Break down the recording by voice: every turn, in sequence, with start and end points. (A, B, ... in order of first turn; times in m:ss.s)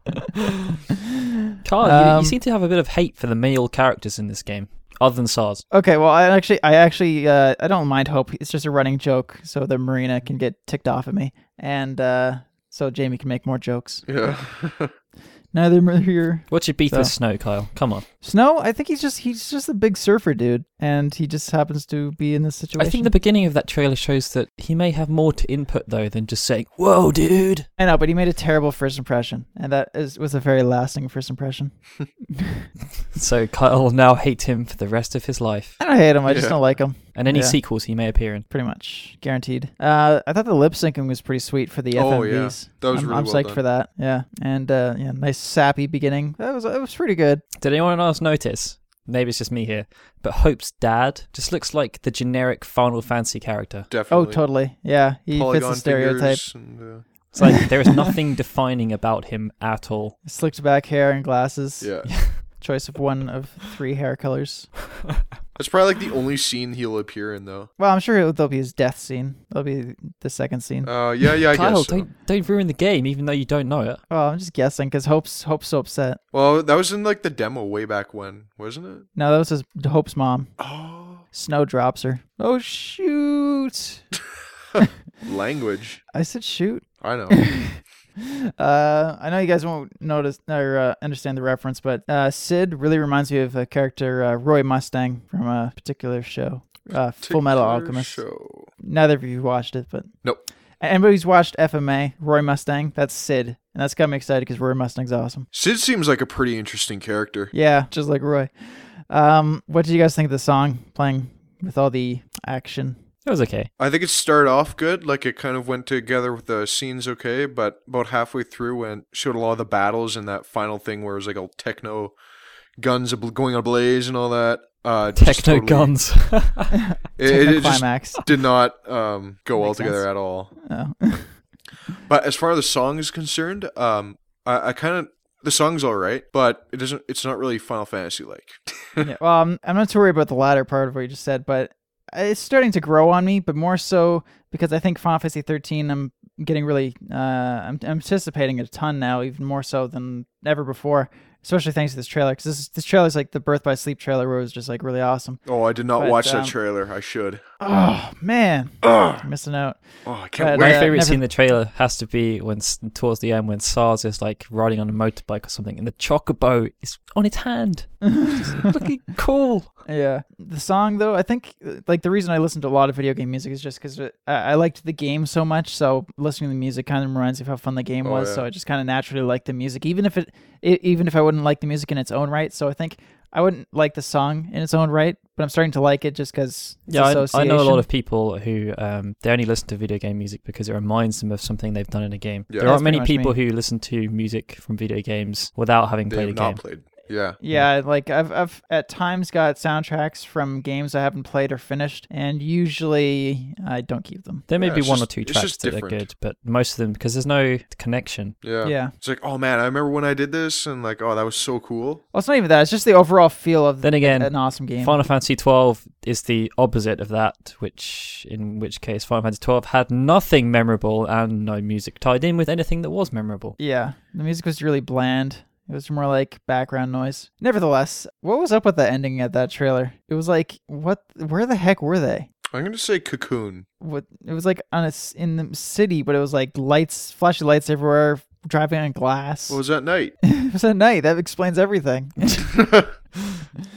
0:00.4-0:00.7 A
0:01.6-0:05.6 A
0:01.8-0:02.4 B
0:05.7-0:14.1 B
0:14.1-0:14.9 C
0:15.5-0:17.1 B
0:16.5-0:18.0 A
0:18.2-0:23.1 B
0:22.8-0:27.7 A
0:27.8-0:31.7 B
0:32.3-0:32.7 B
0:33.1-0:35.8 A
0:35.8-0:37.6 B
0:36.2-0:36.6 C
0:37.1-0:38.4 A
0:38.5-0:47.4 B
0:41.9-0:43.6 C
0:47.6-0:53.9 A
0:53.9-0:54.4 C
0:54.1-0:56.4 B
0:55.3-0:57.0 C
0:57.3-1:00.2 A
0:57.4-0:58.1 B
1:00.2-1:04.7 B
1:01.8-1:02.1 C
1:05.6-1:07.7 C
1:07.8-1:10.9 B
1:10.8-1:12.0 C
1:11.5-1:14.0 A
1:14.1-1:16.2 B
1:16.3-1:19.1 C
1:19.2-1:20.5 B
1:20.6-1:21.2 C
1:21.3-1:24.0 B
1:25.2-1:26.0 C
1:26.1-1:38.2 B
1:27.0-1:27.4 C
1:37.2-1:38.7 C
1:38.8-1:40.1 B
1:40.8-1:45.5 B
1:45.5-1:47.5 C
1:47.5-1:53.0 B
1:53.2-1:53.7 A
1:53.8-2:02.1 C
2:02.8-2:05.9 C
2:05.2-2:06.7 A
2:07.2-2:10.5 C
2:07.2-2:08.2 B
2:09.6-2:10.0 B
2:10.6-2:11.4 B
2:12.1-2:19.0 C
2:19.0-2:35.4 B
2:35.4-2:37.4 C
2:36.0-2:36.5 B
2:37.6-2:39.8 B
2:38.8-2:39.2 C
2:40.0-2:40.9 C
2:40.4-2:41.2 B
2:40.5-2:49.7 A
2:48.0-2:48.7 B
2:49.8-3:07.8 B
2:58.0-2:58.4 C
3:06.9-3:16.6 A
3:12.6-3:13.3 B
3:16.1-3:17.4 C
3:17.4-3:24.4 B
3:24.5-3:28.4 A
3:24.6-3:26.0 C
3:28.4-3:32.0 C
3:28.6-3:28.9 B
3:32.1-3:35.0 B
3:33.8-3:43.6 A
3:43.6-3:52.3 B
3:52.5-3:53.6 C
3:53.8-3:59.6 B
3:59.5-4:00.1 C
4:00.2-4:02.6 B
4:02.6-4:02.9 C
4:03.2-4:03.4 B